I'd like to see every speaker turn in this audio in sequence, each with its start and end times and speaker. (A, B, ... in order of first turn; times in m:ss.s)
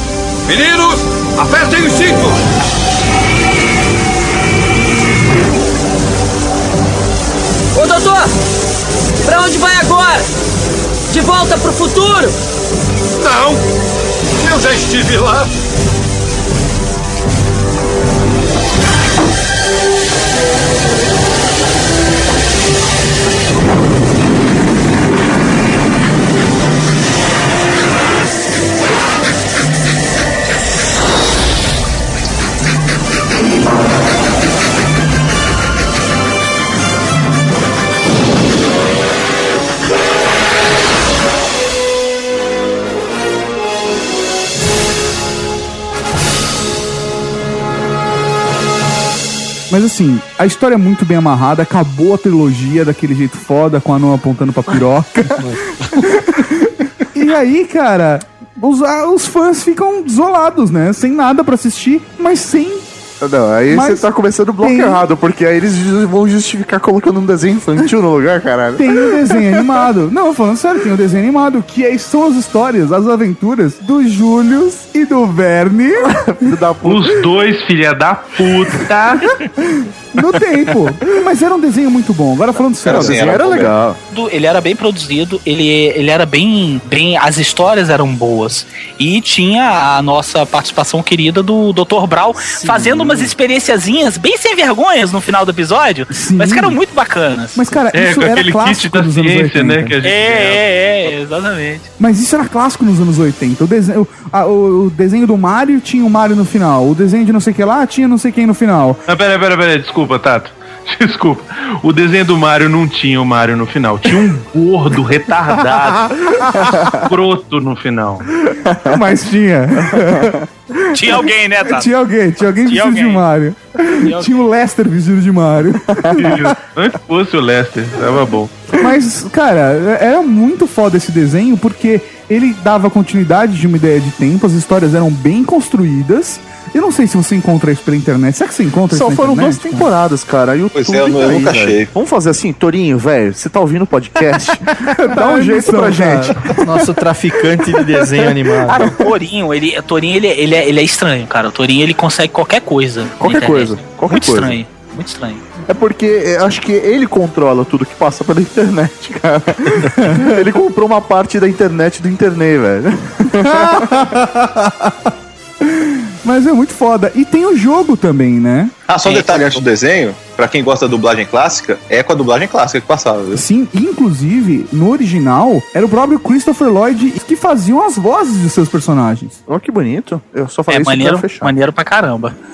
0:00.4-0:02.4 A
0:07.7-0:08.3 B
0:09.2-0:10.3 B
0:11.1-0:12.4 B
0:13.2-0:13.6 A
0:14.4-0:15.5 A
0:49.7-1:02.8 C
1:03.2-1:09.7 D
1:03.7-1:05.0 C
1:08.8-1:16.1 C
1:16.1-1:17.2 D
1:16.8-1:19.3 E
1:20.1-1:23.2 C
1:22.6-1:23.7 F
1:22.9-1:24.0 D
1:24.1-1:37.6 G
1:32.6-1:33.3 D
1:36.1-1:36.8 C
1:37.5-1:39.9 C
1:37.9-1:40.6 E
1:40.0-1:41.9 G
1:42.0-1:49.0 C
1:49.1-1:58.3 E
1:55.3-1:56.1 G
1:56.7-1:57.0 D
1:58.4-1:58.9 D
1:58.8-2:00.4 C
1:59.9-2:00.4 D
2:00.9-2:01.9 G
2:01.7-2:06.5 C
2:02.6-2:03.2 G
2:04.0-2:04.4 G
2:06.2-2:08.6 E
2:08.8-2:19.9 C
2:18.9-2:26.6 D
2:20.7-2:21.9 F
2:24.9-2:26.6 C
2:26.6-2:29.0 H
2:28.6-2:29.0 D
2:29.0-2:35.4 G
2:33.2-2:34.6 D
2:35.7-2:44.0 D
2:39.8-2:40.2 C
2:43.6-2:45.1 C
2:45.6-2:48.7 C
2:48.9-2:53.4 F
2:49.0-2:49.6 G
2:53.3-2:59.4 C
2:59.5-3:01.5 D
3:00.7-3:02.3 G